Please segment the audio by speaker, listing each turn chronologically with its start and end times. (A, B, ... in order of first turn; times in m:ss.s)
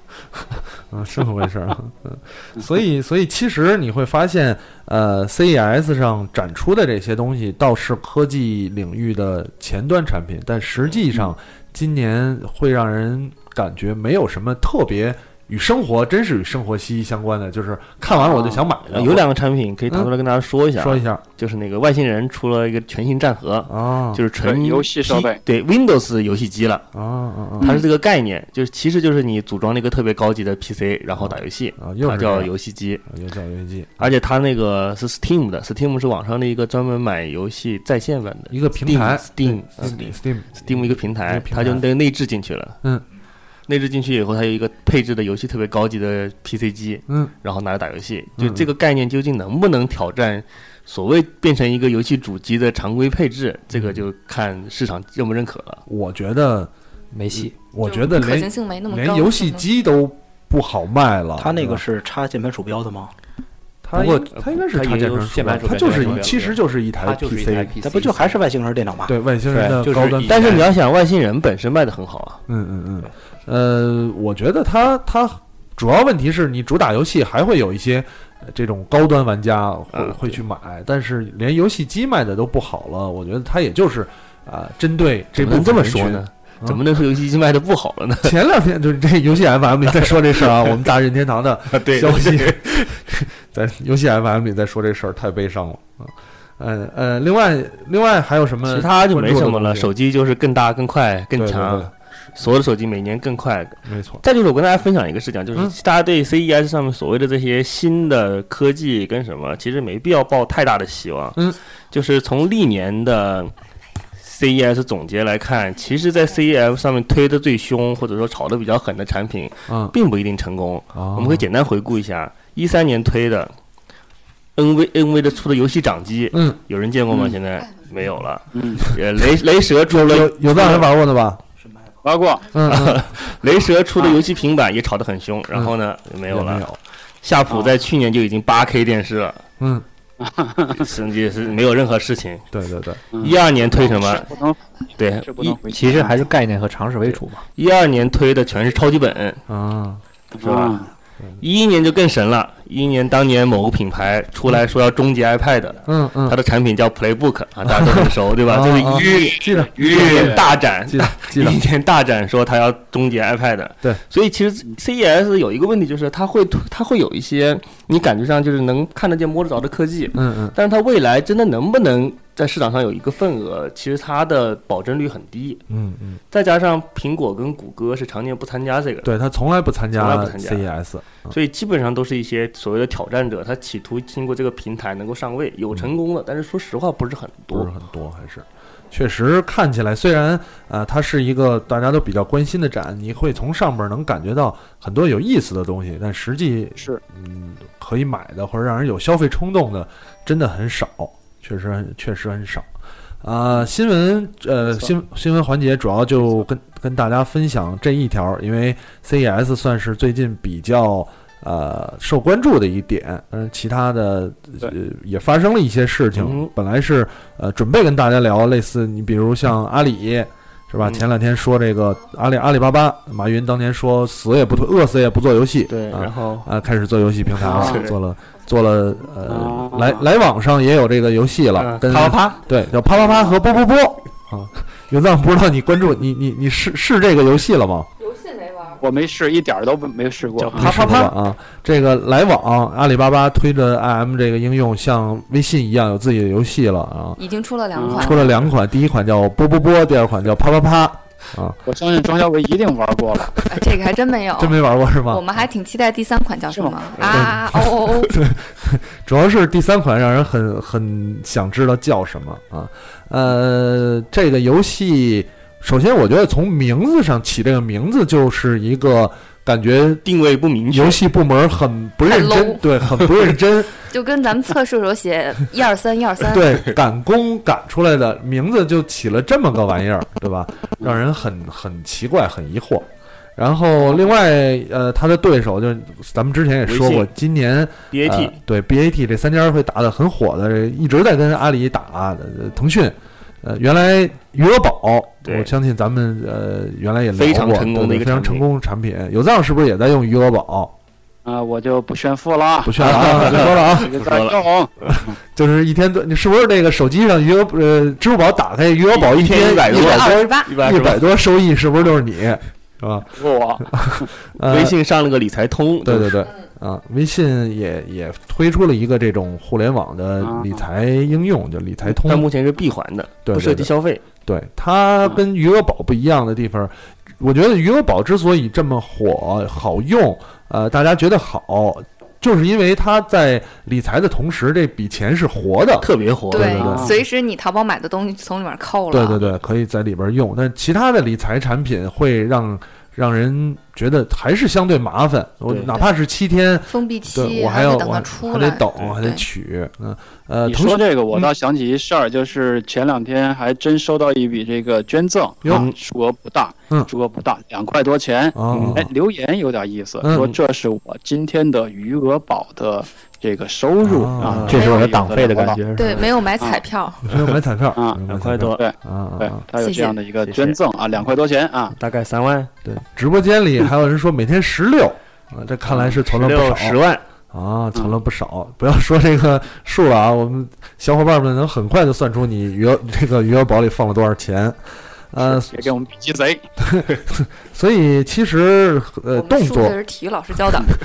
0:00.5-0:19.3 A
0:18.1-0:18.6 B
0:18.9-0:26.9 C
0:20.8-0:21.2 A
0:23.7-0:24.2 A
0:24.4-0:25.4 B
0:26.9-0:27.8 A
0:27.6-0:33.0 C
0:31.2-0:32.5 A
0:33.1-0:34.0 A
0:34.0-0:42.8 C
0:38.5-0:41.8 A
0:43.7-0:55.8 C
0:48.4-0:48.7 A
0:53.7-0:54.0 A
0:55.9-0:56.7 A
0:57.1-0:57.6 D
0:57.3-1:01.8 A
0:57.8-0:59.7 E
1:01.4-1:03.1 F
1:03.8-1:07.8 A
1:04.0-1:06.4 C
1:04.7-1:08.4 D
1:07.8-1:09.2 F
1:09.1-1:10.6 A
1:09.5-1:10.7 D
1:10.2-1:12.4 C
1:12.5-1:26.8 A
1:19.9-1:20.4 C
1:25.4-1:28.4 C
1:28.2-1:39.9 A
1:31.7-1:32.9 C
1:38.7-1:53.5 C
1:41.4-1:41.9 A
1:43.9-1:44.2 A
1:54.2-2:03.5 C
1:59.7-2:00.0 A
2:00.9-2:01.5 A
2:04.6-2:10.9 C
2:06.3-2:06.6 A
2:08.5-2:08.9 B
2:09.9-2:11.4 A
2:12.0-2:12.5 B
2:12.5-2:13.1 A
2:12.7-2:16.7 C
2:16.3-2:16.8 A
2:17.2-2:19.4 C
2:19.6-2:19.9 A
2:20.2-2:20.9 B
2:20.8-2:22.5 C
2:22.5-2:23.0 A
2:23.1-2:24.6 B
2:23.2-2:24.3 C
2:25.0-2:25.6 C
2:25.2-2:26.2 B
2:25.7-2:27.4 D
2:27.0-2:29.4 C
2:29.5-2:30.0 A
2:30.3-2:30.9 B
2:30.4-2:30.8 C
2:31.4-2:55.6 C
2:35.9-2:36.4 A
2:37.7-2:41.6 A
2:38.9-2:40.5 B
2:50.1-2:50.6 A
2:55.7-2:56.2 A
2:56.3-2:59.1 C
2:59.0-3:01.4 A
3:00.0-3:00.7 C
3:01.3-3:07.7 C
3:07.5-3:22.7 A
3:23.2-3:57.9 A
3:24.6-3:24.9 B
3:36.2-3:36.5 C
3:45.7-3:46.5 C
3:47.4-3:47.9 C
3:47.4-3:47.8 B
3:49.3-3:50.0 B
3:51.6-3:52.2 C
3:51.9-3:52.4 D
3:58.5-3:58.8 E
3:58.8-4:01.0 B
4:00.4-4:01.1 C
4:00.6-4:07.2 A
4:07.2-4:08.3 E
4:07.8-4:08.3 B
4:07.9-4:11.6 A
4:11.7-4:13.4 B
4:13.5-4:18.1 E
4:14.4-4:15.2 A
4:16.5-4:16.9 B
4:17.0-4:17.3 C
4:17.1-4:30.0 A
4:30.0-4:31.0 C
4:30.7-4:33.8 A
4:32.0-4:32.6 E
4:33.9-4:36.6 E
4:36.3-5:00.7 A
4:46.7-4:47.1 C
4:47.9-4:48.4 C
4:55.2-4:55.5 C
4:57.2-4:58.5 C
5:01.2-5:05.2 B
5:02.6-5:04.0 A
5:02.8-5:04.4 C
5:05.3-5:14.8 A
5:08.9-5:11.0 C
5:09.7-5:10.5 E
5:13.2-5:14.1 B
5:14.4-5:16.2 C
5:15.8-5:22.3 A
5:20.2-5:20.6 B
5:21.9-5:24.0 C
5:23.3-5:23.7 A
5:24.3-5:36.9 A
5:35.8-5:36.7 C
5:36.3-5:39.2 E
5:36.5-5:37.0 B
5:38.9-5:51.3 A
5:45.5-5:45.7 C
5:46.7-5:49.2 E
5:50.5-6:05.6 B
5:55.5-5:55.8 C
5:58.3-5:58.9 A
5:58.5-5:58.8 C
6:00.0-6:00.3 A
6:03.8-6:04.6 A
6:04.2-6:06.1 D
6:04.5-6:04.9 E
6:05.8-6:07.0 E
6:07.0-6:09.4 A
6:08.1-6:08.6 C
6:08.6-6:11.8 B
6:09.6-6:10.0 E
6:10.2-6:10.6 C
6:11.8-6:12.5 C
6:12.6-6:16.8 A
6:15.7-6:16.0 B
6:16.0-6:17.0 C
6:17.3-6:24.6 A
6:25.1-6:25.7 A
6:25.2-6:26.5 B
6:26.6-6:29.8 A
6:29.1-6:30.7 E